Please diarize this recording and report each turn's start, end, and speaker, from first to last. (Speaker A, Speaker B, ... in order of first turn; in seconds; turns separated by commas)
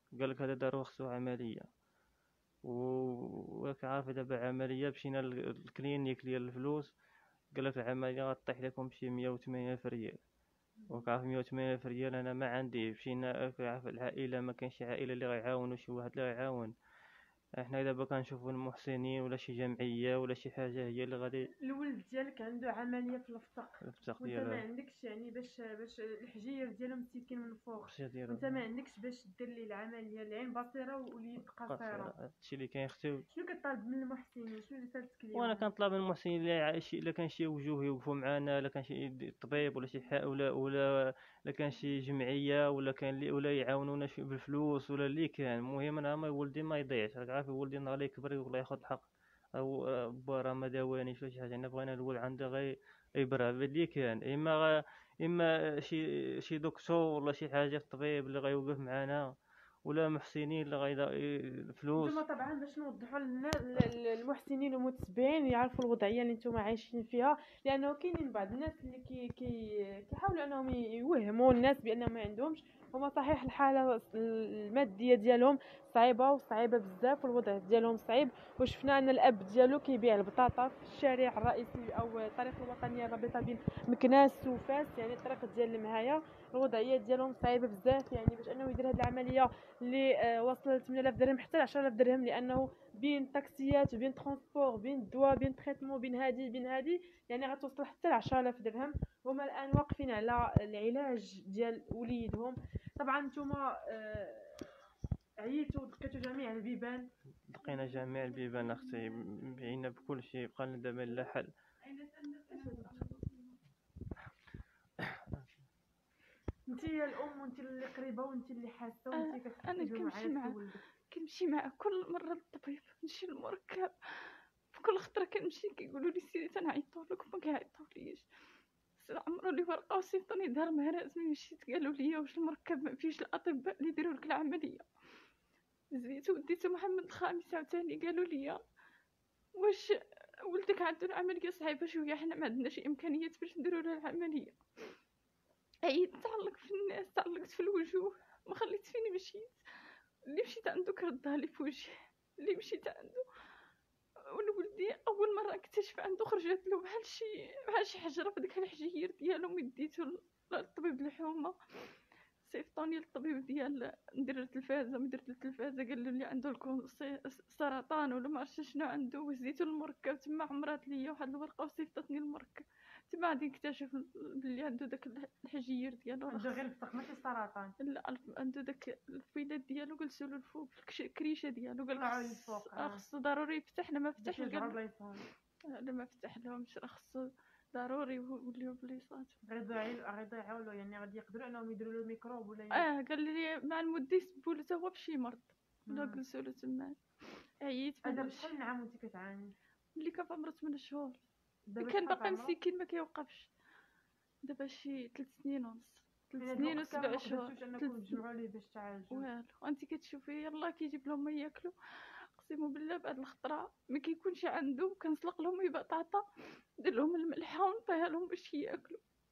Speaker A: 0.2-1.7, Speaker A: 2.6-6.9, Speaker A: 7.5-10.2, Speaker B: 10.8-11.1, Speaker A: 10.9-16.7, Speaker A: 17.6-21.5, Speaker B: 21.6-32.1, Speaker A: 23.8-24.6, Speaker A: 27.8-28.6, Speaker A: 31.7-33.3, Speaker B: 33.3-35.7, Speaker A: 35.4-59.2, Speaker A: 59.9-62.2, Speaker B: 62.0-104.7, Speaker B: 105.4-107.1, Speaker A: 107.5-111.5, Speaker C: 107.8-109.5, Speaker C: 111.8-113.6, Speaker B: 112.5-112.9, Speaker A: 115.0-115.4, Speaker B: 116.7-120.8, Speaker C: 119.1-120.6, Speaker C: 121.1-128.3, Speaker C: 129.0-134.9, Speaker C: 135.9-138.6, Speaker C: 139.6-144.6, Speaker C: 145.8-149.6, Speaker C: 150.3-153.2, Speaker C: 154.2-176.6, Speaker B: 176.3-177.7, Speaker C: 177.8-184.8, Speaker B: 182.0-183.0, Speaker B: 184.2-185.2, Speaker C: 185.7-189.4, Speaker B: 189.5-192.9, Speaker C: 192.7-197.0, Speaker B: 195.9-196.2, Speaker C: 197.6-198.6, Speaker B: 198.0-199.5, Speaker C: 200.0-201.2, Speaker B: 201.7-202.6, Speaker C: 201.8-203.5, Speaker C: 204.4-208.2, Speaker B: 206.4-209.2, Speaker C: 209.1-216.2, Speaker C: 216.8-219.0